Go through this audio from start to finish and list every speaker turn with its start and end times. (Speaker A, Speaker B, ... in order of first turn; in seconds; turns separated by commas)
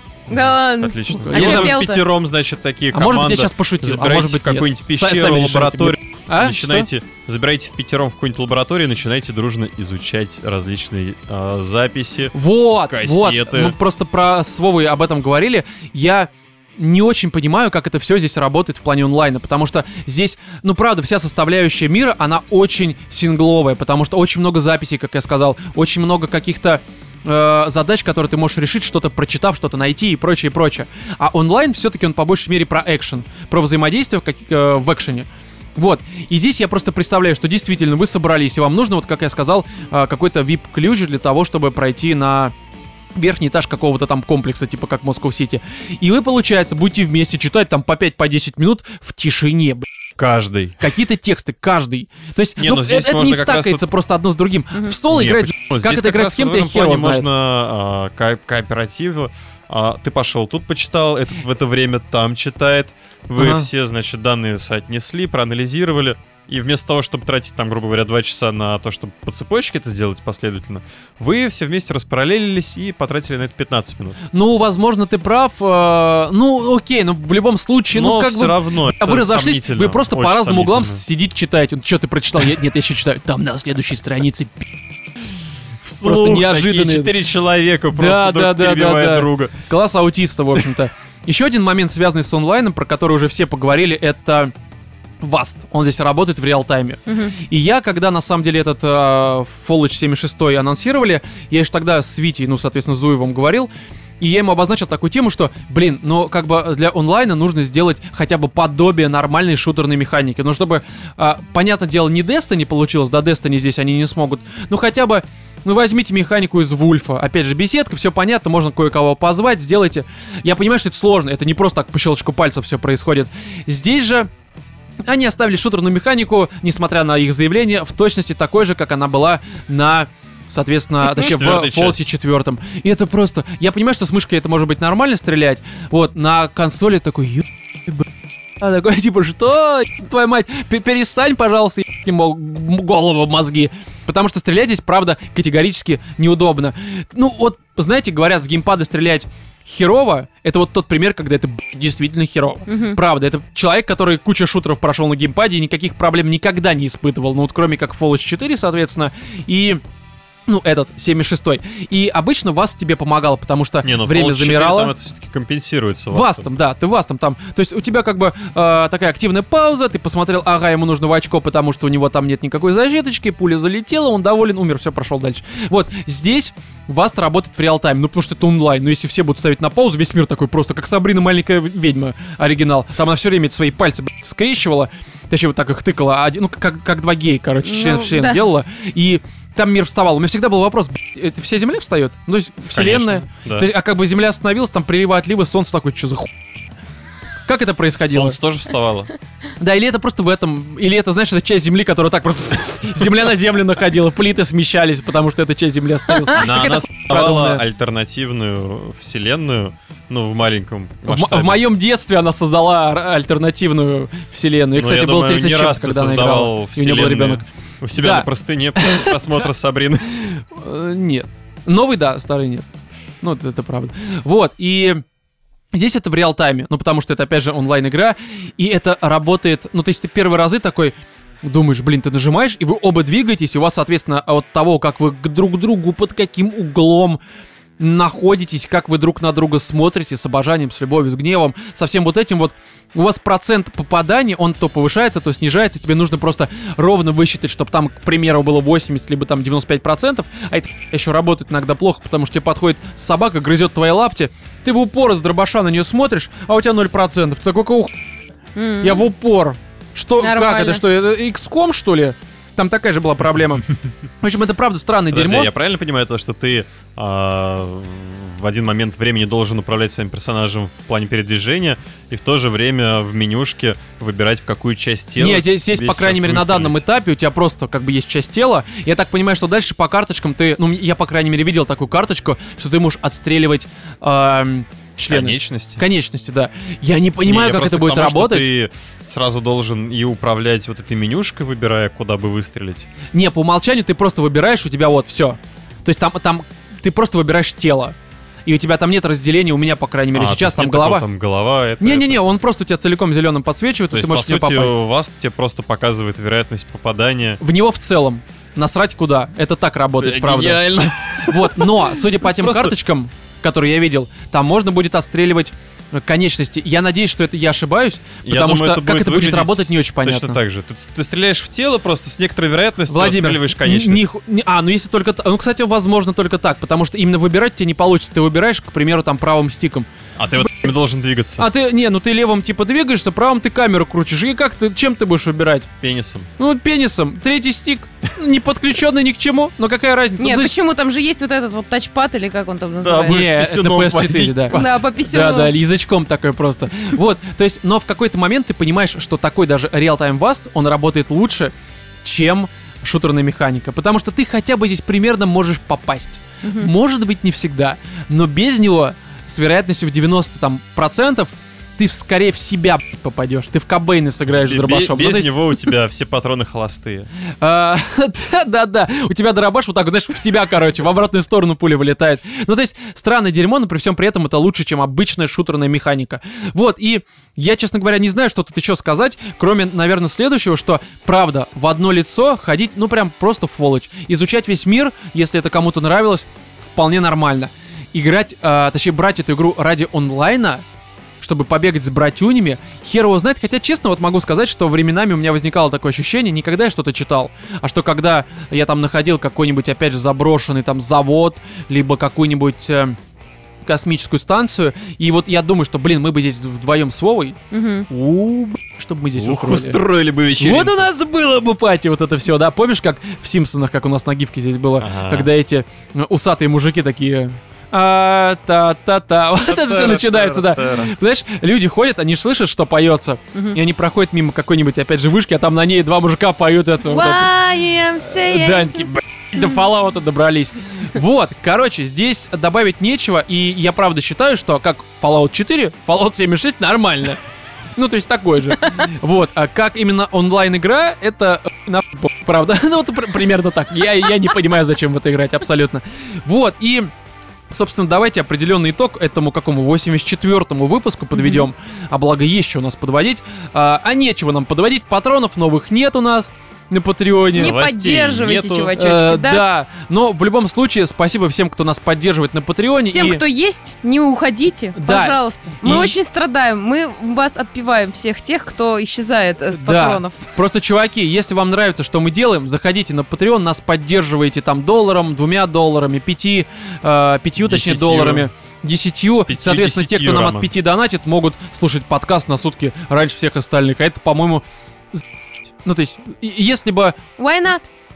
Speaker A: 0.3-12.3, Speaker B: 0.3-2.0, Speaker C: 1.2-1.8, Speaker C: 2.9-6.9, Speaker C: 12.3-42.5, Speaker A: 12.8-13.8, Speaker C: 43.1-49.9, Speaker A: 50.2-50.9, Speaker C: 50.8-57.2, Speaker A: 52.6-53.8, Speaker A: 55.1-74.2, Speaker C: 63.4-63.7, Speaker C: 74.3-84.8, Speaker A: 77.9-81.0, Speaker A: 85.8-89.5, Speaker C: 86.0-87.1, Speaker C: 87.9-94.5, Speaker C: 95.2-124.3, Speaker B: 97.1-97.3, Speaker C: 125.0-138.1, Speaker A: 131.1-132.1, Speaker C: 138.6-159.8, Speaker B: 152.7-153.0, Speaker C: 160.5-164.9, Speaker A: 163.8-166.5, Speaker C: 166.1-196.3, Speaker B: 187.6-188.4, Speaker A: 192.7-193.7, Speaker C: 197.5-198.4, Speaker A: 198.1-199.1, Speaker C: 199.6-207.6, Speaker A: 206.3-211.6, Speaker C: 211.1-219.2, Speaker A: 214.7-220.1, Speaker C: 220.2-222.7, Speaker C: 223.2-225.0, Speaker C: 225.7-237.2, Speaker C: 237.8-257.9, Speaker B: 258.6-259.0, Speaker C: 258.8-263.7, Speaker B: 260.2-260.8, Speaker C: 264.2-265.5, Speaker A: 265.1-276.8, Speaker C: 275.2-288.5, Speaker A: 285.1-285.8, Speaker A: 287.2-292.9, Speaker C: 293.1-297.9, Speaker C: 298.4-301.1, Speaker A: 300.1-302.2, Speaker C: 301.8-304.8, Speaker A: 303.9-307.4, Speaker C: 307.4-320.4, Speaker A: 310.0-312.8, Speaker A: 318.2-324.1, Speaker C: 322.9-329.9, Speaker A: 330.2-331.5, Speaker C: 331.4-335.7, Speaker A: 335.8-336.3, Speaker C: 336.4-340.5, Speaker B: 340.2-343.2, Speaker A: 342.8-344.9, Speaker C: 343.0-365.6, Speaker B: 344.5-345.5, Speaker B: 356.4-356.7, Speaker A: 364.3-367.1, Speaker C: 367.4-390.6, Speaker C: 391.2-403.0, Speaker C: 403.6-407.4, Speaker B: 407.5-407.9, Speaker C: 407.9-409.8, Speaker A: 409.1-410.9, Speaker C: 410.4-437.2, Speaker A: 414.8-415.3, Speaker A: 419.5-420.9, Speaker B: 426.9-429.6, Speaker C: 437.8-446.9, Speaker C: 447.5-457.6, Speaker B: 451.1-451.4, Speaker B: 457.3-459.4, Speaker A: 457.4-458.7, Speaker C: 458.8-463.2, Speaker B: 462.9-470.2, Speaker C: 464.7-465.9, Speaker C: 469.5-485.0, Speaker A: 477.4-478.3, Speaker A: 479.3-480.5, Speaker C: 485.6-487.0, Speaker B: 487.2-487.7